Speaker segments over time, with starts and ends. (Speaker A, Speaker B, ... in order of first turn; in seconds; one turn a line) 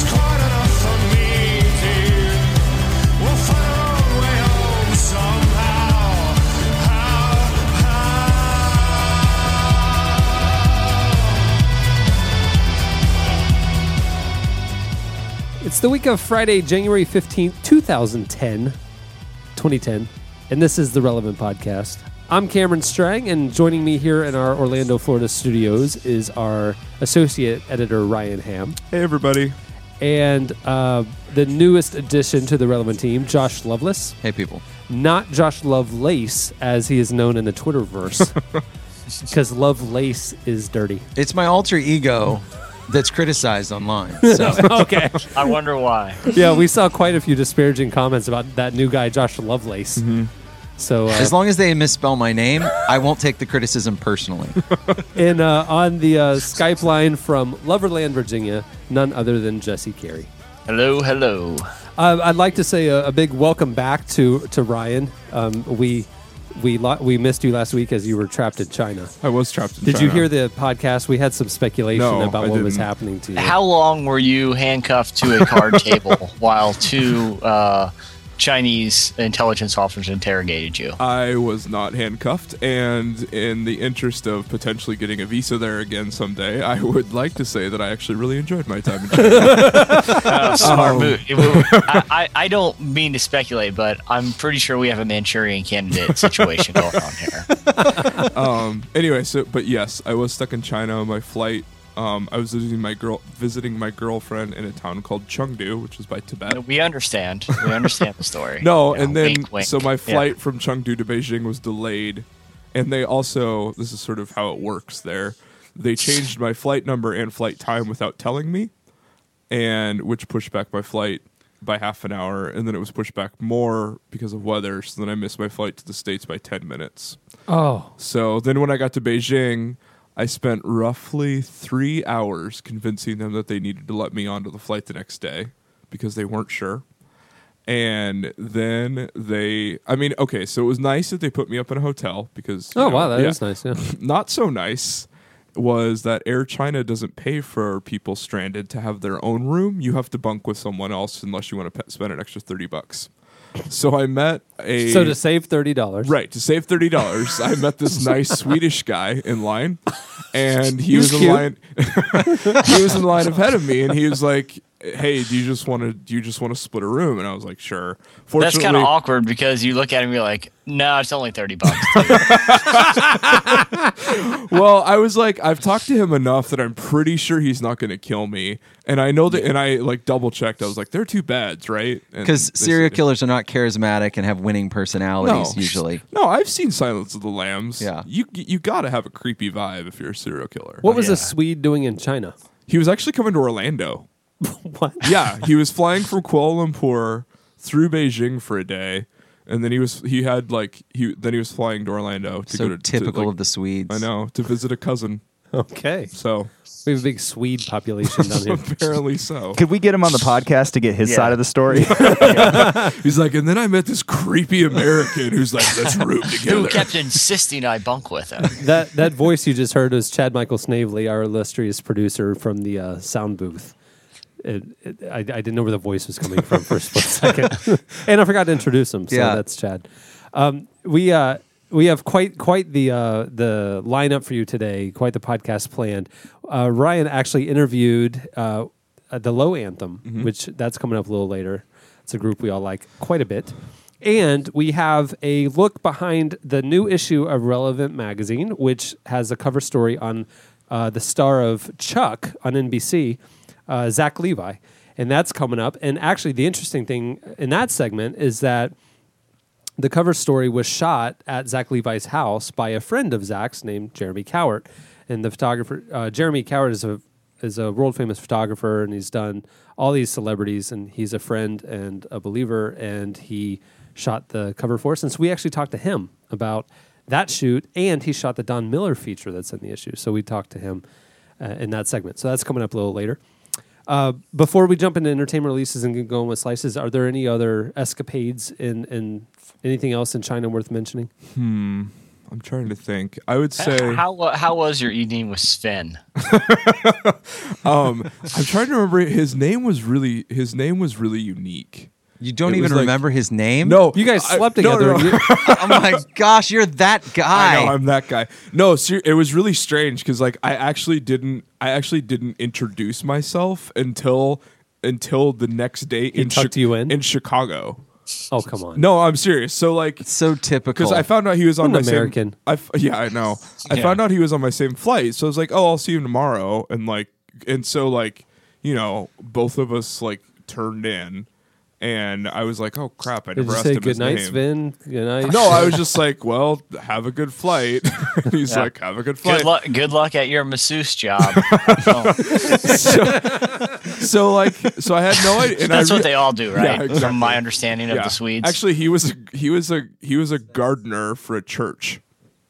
Speaker A: 15.6-18.8
Speaker A: 19.6-28.8
Speaker B: 28.9-29.6
Speaker A: 30.0-34.2
Speaker C: 34.2-34.6
Speaker A: 34.9-38.4
Speaker A: 39.2-41.1
Speaker C: 41.2-44.8
Speaker A: 44.2-45.4
Speaker D: 45.3-46.2
Speaker A: 46.3-50.1
Speaker B: 50.0-50.3
Speaker A: 50.8-51.4
Speaker C: 51.1-54.6
Speaker A: 55.1-60.3
Speaker D: 60.7-61.7
Speaker A: 62.0-69.1
Speaker B: 69.2-70.3
Speaker A: 69.8-73.6
Speaker B: 71.9-72.9
Speaker D: 73.3-81.0
Speaker B: 81.0-92.0
Speaker A: 89.7-90.0
Speaker D: 90.0-97.5
Speaker A: 97.9-98.2
Speaker B: 98.1-106.6
Speaker D: 106.5-110.3
Speaker B: 108.6-118.7
Speaker B: 119.5-127.2
Speaker A: 127.5-127.9
Speaker B: 128.0-136.8
Speaker B: 137.7-153.1
Speaker A: 142.7-143.8
Speaker B: 153.7-155.2
Speaker A: 154.8-156.1
Speaker B: 156.0-168.9
Speaker A: 160.9-161.5
Speaker D: 168.4-172.7
Speaker B: 171.9-183.0
Speaker C: 182.2-186.0
Speaker B: 185.2-190.9
Speaker C: 187.8-188.1
Speaker A: 190.8-192.3
Speaker D: 190.9-191.3
Speaker B: 192.7-194.1
Speaker A: 194.4-195.1
Speaker B: 195.0-203.3
Speaker C: 202.5-204.1
Speaker B: 203.9-205.2
Speaker A: 205.5-206.1
Speaker B: 206.1-206.5
Speaker A: 206.8-208.9
Speaker B: 208.1-209.6
Speaker E: 209.6-212.4
Speaker C: 211.1-211.4
Speaker A: 211.8-212.9
Speaker B: 211.9-217.0
Speaker D: 216.3-218.6
Speaker A: 218.6-223.7
Speaker A: 224.4-258.7
Speaker C: 229.1-229.4
Speaker A: 259.8-280.8
Speaker A: 281.4-283.2
Speaker A: 283.9-291.1
Speaker B: 291.3-294.0
Speaker D: 293.6-296.0
Speaker B: 296.2-301.9
Speaker C: 302.2-303.8
Speaker B: 302.4-303.0
Speaker B: 303.6-306.0
Speaker A: 303.9-305.2
Speaker C: 305.3-307.8
Speaker B: 307.3-317.8
Speaker A: 316.1-317.0
Speaker A: 318.3-318.9
Speaker B: 318.8-320.1
Speaker C: 320.0-321.1
Speaker B: 320.7-331.3
Speaker A: 321.6-322.4
Speaker D: 323.6-324.0
Speaker B: 331.8-334.4
Speaker A: 333.4-335.8
Speaker B: 335.3-339.5
Speaker D: 339.2-342.8
Speaker B: 341.4-352.0
Speaker D: 345.5-348.6